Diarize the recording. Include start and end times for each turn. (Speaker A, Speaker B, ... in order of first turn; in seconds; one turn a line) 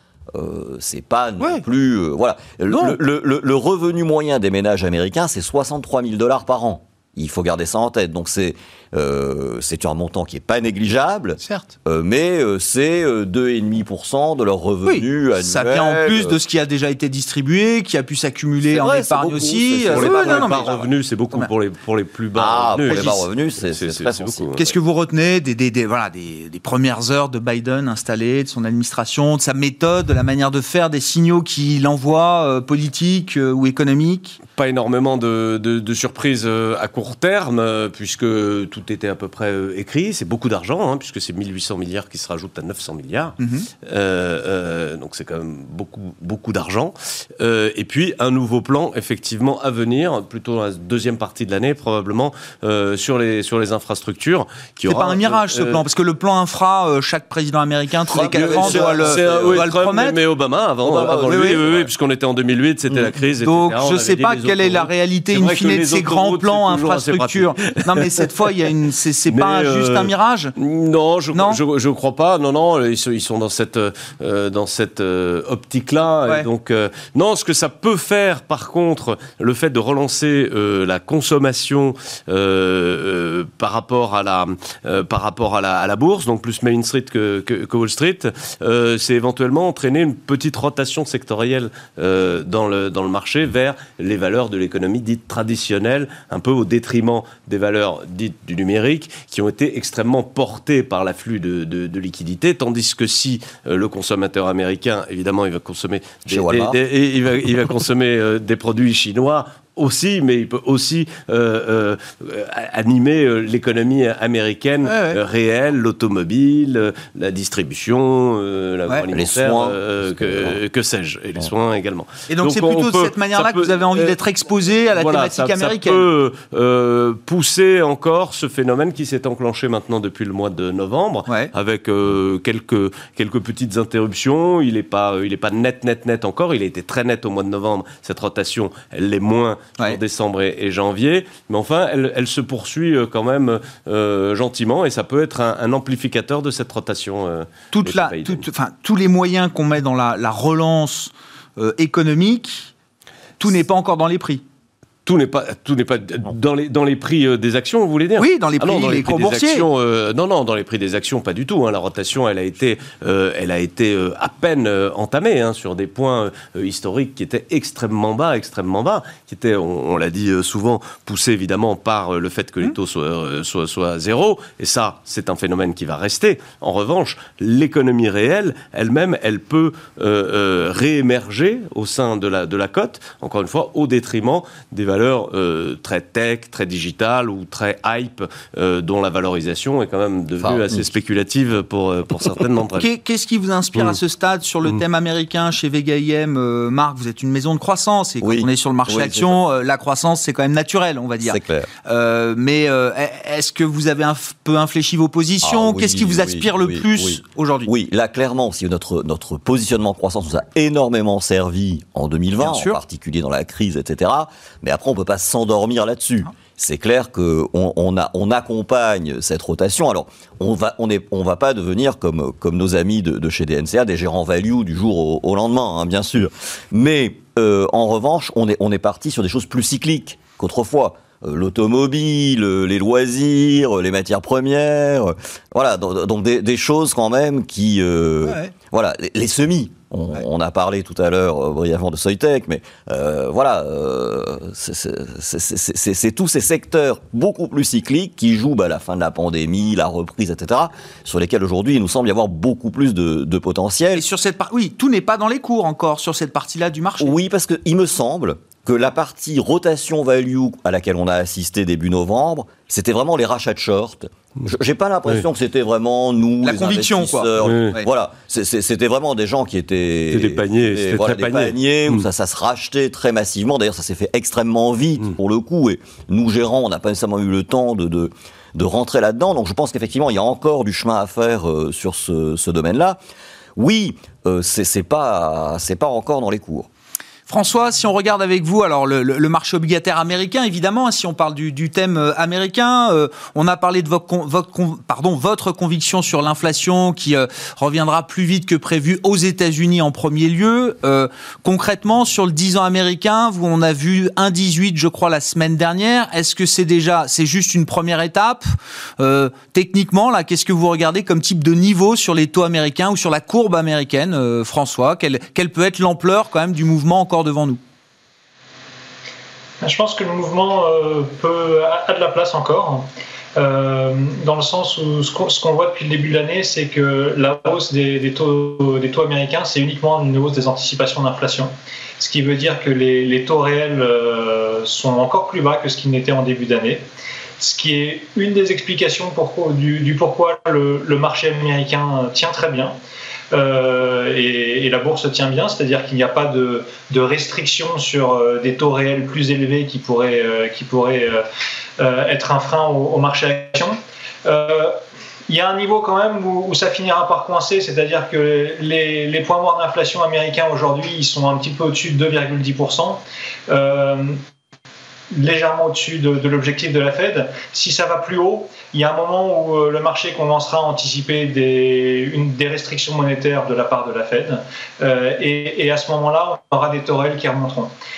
Speaker A: 0.3-16.4
Speaker B: 2.7-3.0
Speaker B: 11.4-11.7
Speaker B: 14.9-20.8
Speaker A: 18.6-20.8
Speaker C: 19.9-24.7
Speaker A: 22.4-24.6
Speaker B: 22.9-23.2
Speaker B: 24.6-34.4
Speaker C: 34.6-55.8
Speaker B: 43.4-43.7
Speaker B: 54.9-60.2
Speaker A: 58.1-59.7
Speaker C: 58.1-68.2
Speaker A: 60.9-61.9
Speaker B: 61.1-61.6
Speaker B: 63.4-70.5
Speaker C: 69.3-124.2
Speaker B: 71.3-71.6
Speaker A: 106.3-106.8
Speaker B: 114.8-115.2
Speaker A: 119.1-120.6
Speaker B: 122.3-126.1
Speaker C: 124.9-148.4
Speaker B: 147.7-152.7
Speaker B: 153.4-154.4
Speaker C: 155.1-192.9
Speaker B: 158.2-159.7
Speaker A: 190.4-190.9
Speaker B: 192.8-207.7
Speaker A: 198.2-199.4
Speaker A: 201.2-201.7
Speaker A: 205.4-254.0
Speaker B: 212.4-212.8
Speaker B: 238.3-238.5
Speaker B: 253.9-257.2
Speaker A: 257.0-283.0
Speaker B: 266.4-267.9
Speaker C: 267.4-267.8
Speaker C: 270.1-272.1
Speaker A: 283.6-286.7
Speaker B: 287.3-308.5
Speaker B: 309.0-317.6
Speaker D: 319.6-336.8
Speaker D: 337.4-342.8
Speaker D: 343.3-351.2
Speaker D: 351.8-354.8
Speaker D: 355.3-364.2
Speaker D: 365.1-377.7